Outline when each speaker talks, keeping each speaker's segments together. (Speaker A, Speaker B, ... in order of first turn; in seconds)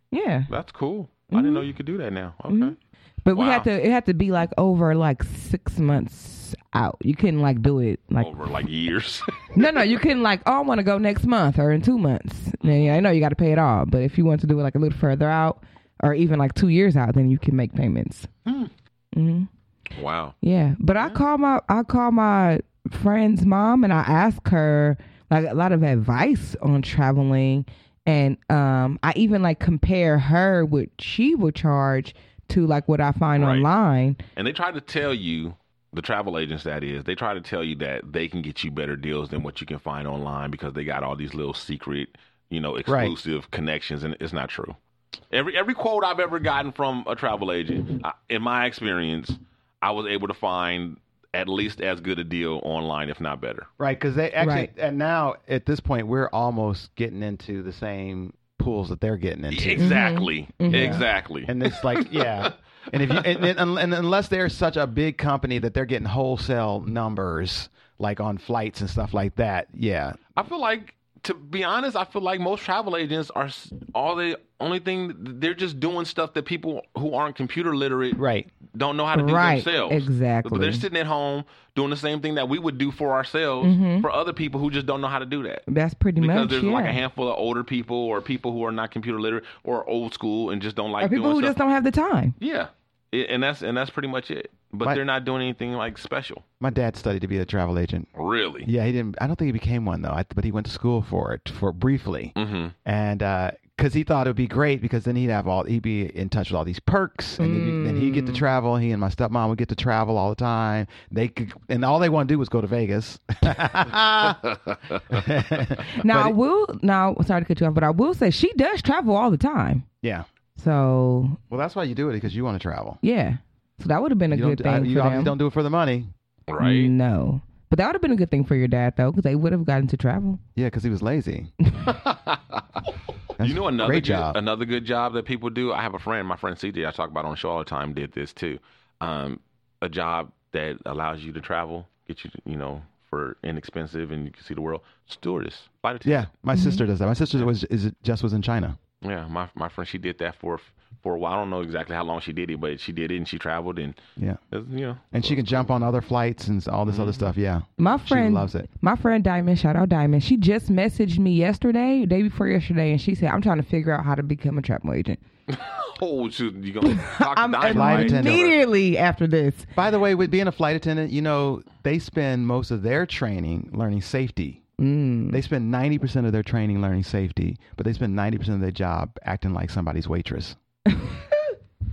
Speaker A: 0.1-0.5, 1.3-1.7, 2.5-8.3, 9.5-18.3, 19.1-19.5, 20.4-34.2, 54.4-54.7, 59.8-61.0, 79.1-80.8, 83.6-84.1, 85.7-87.0, 91.0-92.3, 107.4-108.5, 116.0-119.8, 120.6-121.4, 123.0-125.3, 126.6-130.4, 146.6-146.8, 157.8-165.2, 166.8-169.7, 174.8-175.4, 180.9-181.6
Speaker B: 0.5-2.8, 3.3-3.7, 8.2-9.9, 12.6-13.0, 19.9-20.4, 33.4-33.7, 34.4-44.8, 45.3-53.7, 59.5-63.5, 70.3-85.7, 86.2-91.6, 92.4-96.4, 98.2-98.7, 102.4-102.8, 114.4-115.2, 126.5-126.9, 131.9-132.8, 133.4-146.3, 149.0-154.0, 154.5-155.7, 156.9-157.3, 165.5-168.5
Speaker C: 42.9-43.1, 53.8-60.0, 60.7-70.2, 78.2-78.5, 96.6-98.1, 98.6-102.3, 102.8-114.6, 115.1-116.3, 121.5-123.0, 124.3-126.1, 130.6-131.5, 133.4-134.4, 146.0-148.8, 155.1-158.7, 167.7-168.5, 169.8-174.6, 175.3-180.6